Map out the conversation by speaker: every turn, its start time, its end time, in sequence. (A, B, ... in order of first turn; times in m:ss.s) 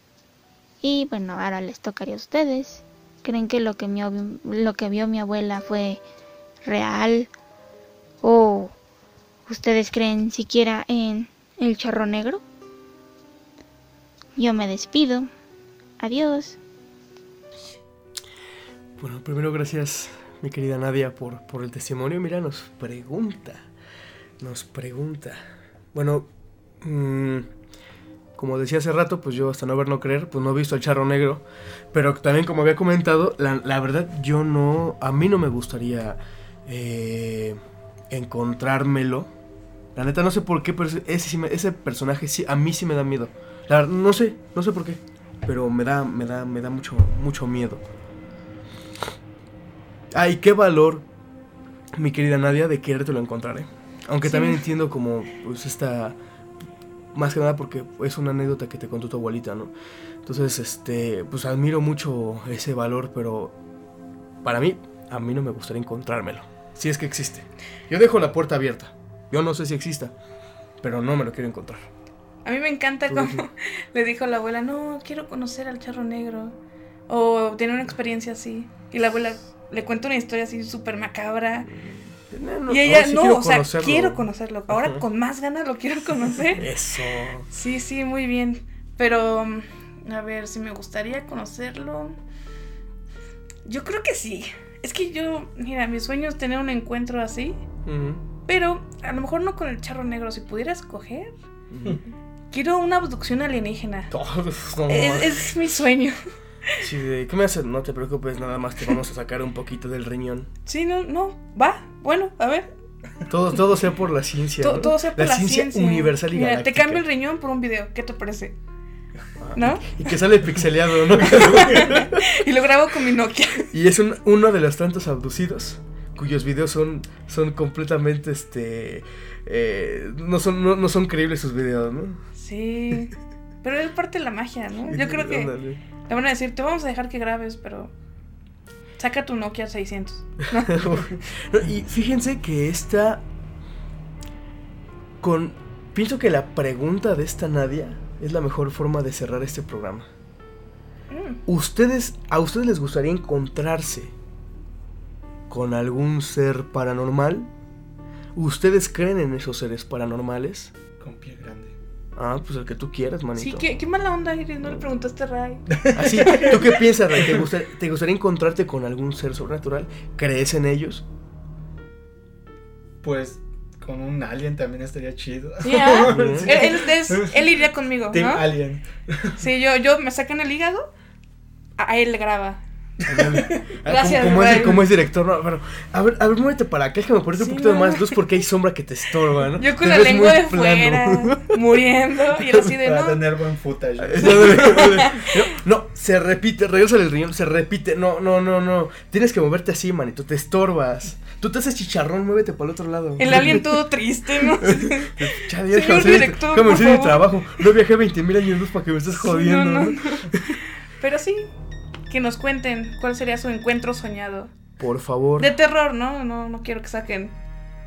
0:00.8-0:06.0 A
0:06.6-0:07.3 A
0:08.2-0:08.8 A
0:09.5-0:12.4 A
0:14.4-0:15.3 A
0:16.0-0:16.6 A
0:19.0-0:23.7 B
0:24.4-0:25.4 B
0:25.9-0:26.3 B
0:26.8-0:27.5 B
0:28.4-0:37.6 B
0:38.1-0:39.3 B
0:40.0-0:47.8 B
0:50.1-0:51.0 B
0:51.9-0:56.2 B
0:54.2-0:54.6 C
0:57.1-0:59.7 B
1:00.2-1:03.6 B
1:04.4-1:10.1 B
1:10.8-1:11.9 B
1:12.4-1:16.6 C
1:13.1-1:13.4 B
1:17.1-1:21.7 C
1:21.6-1:25.0 B
1:22.7-1:26.7 C
1:26.6-1:27.5 B
1:27.5-1:32.2 C
1:33.7-1:37.7 C
1:37.9-1:38.2 B
1:38.5-1:41.3 C
1:41.7-1:42.0 B
1:42.5-1:44.1 C
1:44.1-1:45.5 B
1:44.9-1:46.2 C
1:46.8-1:50.5 B
1:50.7-1:52.7 C
1:53.3-1:57.0 B
1:54.6-1:58.6 C
1:59.4-2:02.2 B
1:59.6-2:00.1 C
2:01.2-2:03.7 C
2:03.7-2:12.2 B
2:12.4-2:15.5 C
2:14.9-2:15.8 B
2:16.1-2:17.9 C
2:19.0-2:21.2 C
2:20.7-2:23.2 B
2:25.2-2:30.1 B
2:31.1-2:31.4 C
2:31.5-2:34.1 B
2:35.5-2:37.5 B
2:38.4-2:40.7 B
2:41.0-2:41.8 D
2:42.2-2:43.6 B
2:43.4-2:46.6 C
2:45.8-2:47.4 D
2:45.9-2:51.0 B
2:53.0-2:59.4 D
2:55.6-2:58.5 C
2:56.1-2:56.6 B
2:59.4-3:00.9 C
3:01.8-3:02.6 C
3:03.0-3:03.6 D
3:03.1-3:11.6 B
3:03.9-3:04.8 C
3:07.4-3:08.2 C
3:09.6-3:13.3 C
3:12.8-3:15.0 D
3:14.0-3:23.8 B
3:14.2-3:15.3 C
3:23.2-3:27.4 C
3:24.4-3:30.6 B
3:29.2-3:30.5 C
3:31.0-3:31.5 C
3:32.1-3:34.5 C
3:34.8-3:35.5 B
3:35.4-3:37.4 C